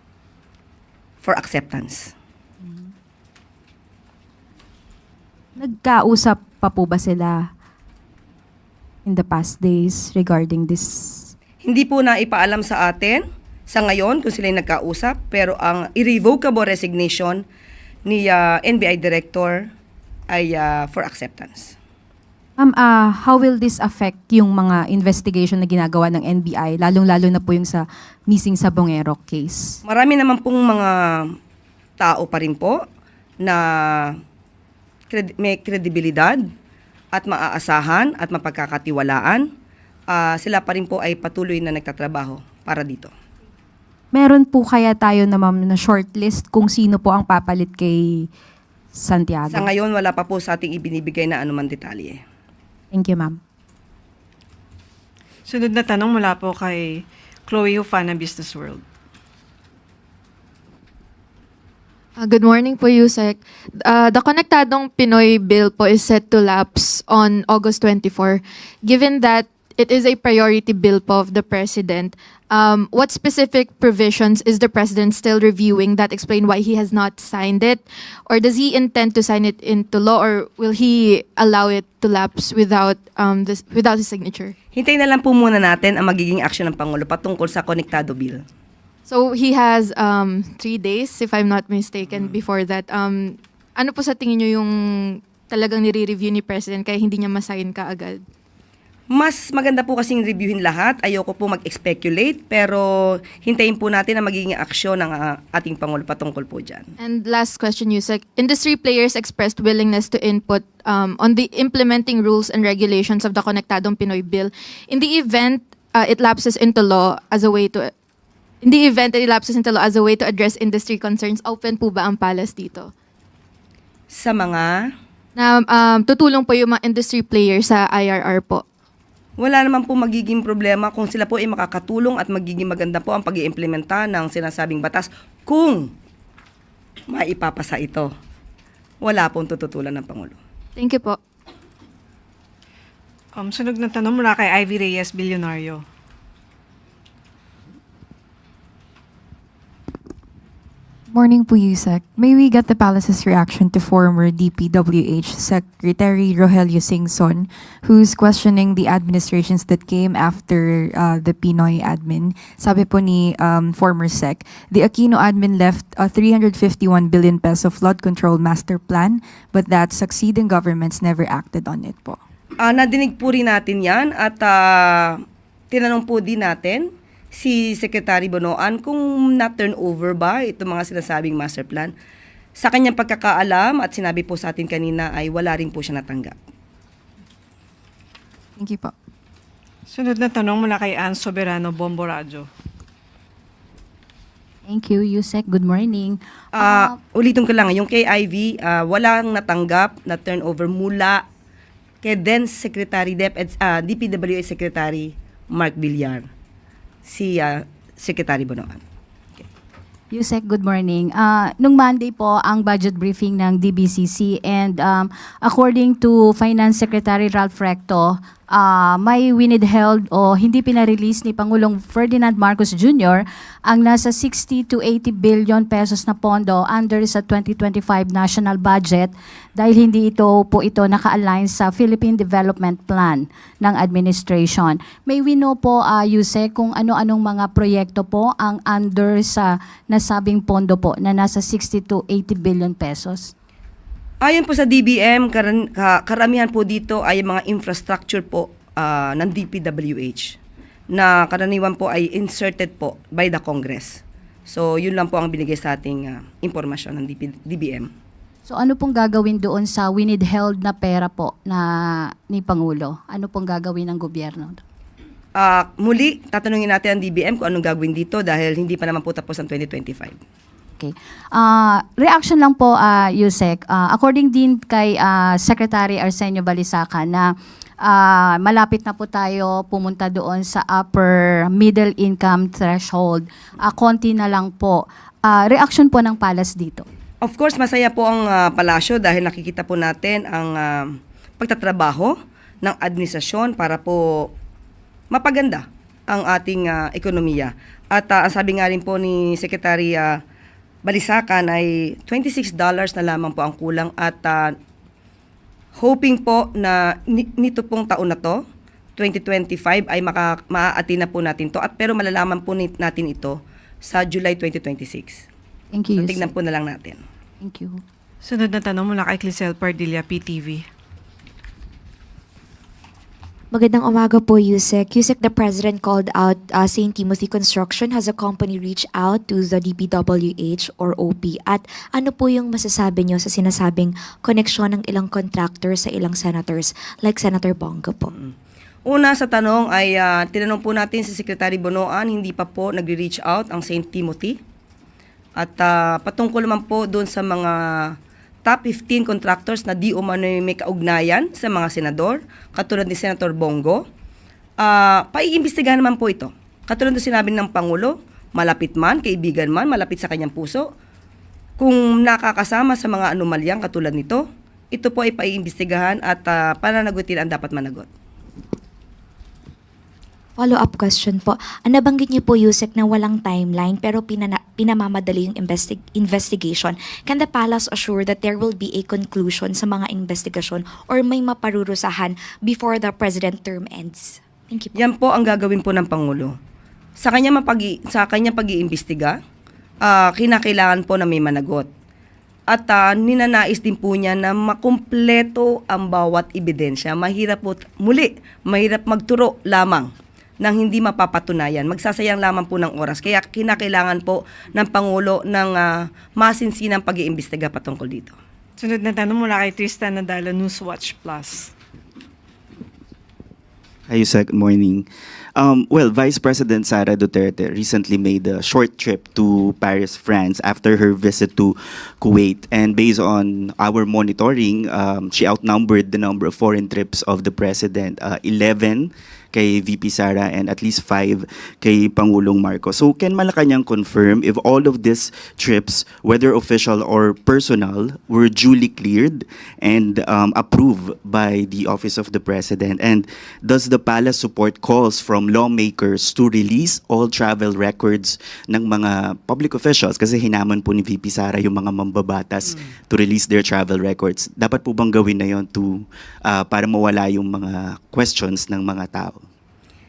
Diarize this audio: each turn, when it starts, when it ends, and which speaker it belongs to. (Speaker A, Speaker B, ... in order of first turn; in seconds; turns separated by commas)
Speaker A: 1.2-2.1, Speaker B: 5.6-7.5, Speaker B: 9.1-11.3, Speaker A: 11.6-17.4, Speaker A: 18.1-19.7, Speaker A: 20.3-21.8, Speaker B: 22.6-29.8, Speaker A: 29.9-31.4, Speaker A: 32.0-32.8, Speaker A: 33.4-34.2, Speaker A: 35.1-36.4, Speaker A: 37.1-39.5, Speaker A: 40.1-43.1, Speaker B: 44.1-48.3, Speaker B: 49.0-49.7, Speaker A: 49.5-52.2, Speaker B: 52.9-53.4, Speaker C: 55.5-58.8, Speaker D: 62.2-84.5, Speaker A: 84.8-88.4, Speaker D: 89.1-94.7, Speaker D: 95.3-98.2, Speaker A: 99.1-106.9, Speaker D: 107.0-117.9, Speaker D: 118.6-122.9, Speaker A: 124.1-124.9, Speaker D: 125.4-128.6, Speaker A: 129.4-135.9, Speaker A: 137.1-138.1, Speaker A: 139.0-140.4, Speaker D: 140.8-141.2, Speaker C: 143.4-145.8, Speaker E: 151.1-172.2, Speaker A: 172.6-181.9, Speaker A: 182.6-186.4, Speaker E: 188.6-188.9, Speaker C: 189.9-192.5, Speaker F: 194.7-197.0, Speaker A: 196.6-201.2, Speaker A: 202.0-206.3, Speaker A: 207.0-208.8, Speaker F: 210.1-243.3, Speaker A: 244.2-250.4, Speaker A: 250.9-257.9, Speaker F: 258.5-264.6, Speaker A: 265.4-270.2, Speaker F: 270.8-286.9, Speaker A: 287.2-294.3, Speaker A: 295.1-300.2, Speaker A: 300.9-304.6, Speaker A: 305.8-308.4, Speaker A: 309.0-315.3, Speaker F: 315.7-316.3, Speaker A: 315.9-317.0, Speaker F: 317.4-317.8, Speaker C: 318.2-320.6, Speaker G: 323.5-338.1, Speaker A: 338.9-344.4, Speaker A: 345.4-353.8, Speaker A: 354.6-360.7, Speaker A: 361.6-367.9, Speaker G: 370.4-384.8, Speaker A: 384.8-386.4, Speaker A: 387.0-389.2, Speaker A: 389.8-391.7, Speaker A: 392.5-408.2, Speaker C: 408.6-411.5, Speaker H: 413.9-459.2